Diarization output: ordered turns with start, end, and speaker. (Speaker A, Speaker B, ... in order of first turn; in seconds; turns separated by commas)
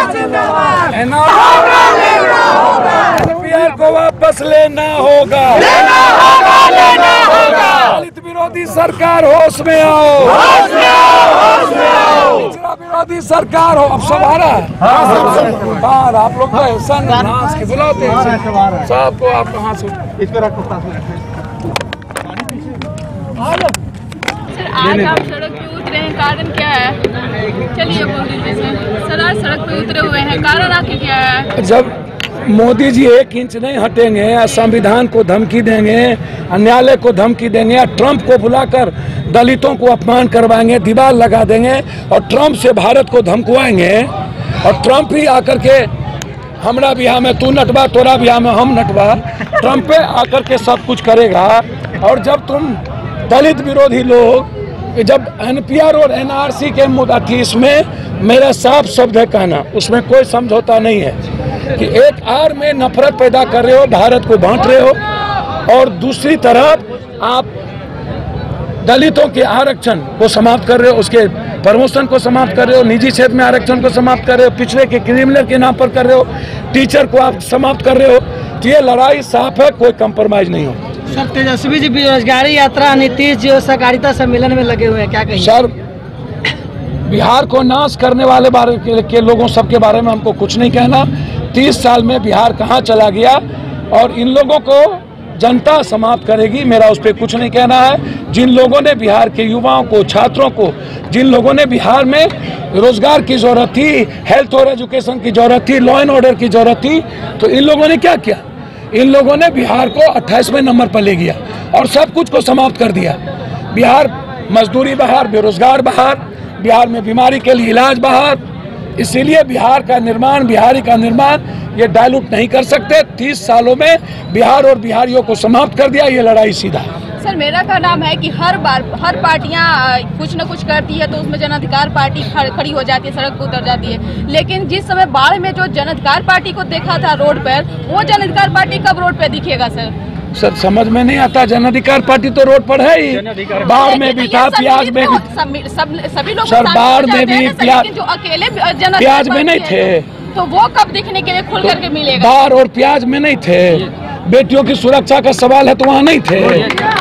Speaker A: 0.8-20.1, Speaker B: 24.5-27.0, Speaker B: 27.6-31.5, Speaker A: 31.6-31.9, Speaker A: 32.4-45.9, Speaker A: 46.6-61.2, Speaker A: 61.7-65.0, Speaker A: 65.7-67.5, Speaker A: 68.8-80.8, Speaker C: 81.1-85.5, Speaker A: 85.4-85.7, Speaker A: 87.1-113.2, Speaker A: 113.7-118.4, Speaker A: 119.0-126.9, Speaker B: 127.2-139.9, Speaker A: 140.3-145.3, Speaker B: 143.6-152.3, Speaker A: 146.4-147.9, Speaker A: 149.0-150.1, Speaker A: 151.6-156.7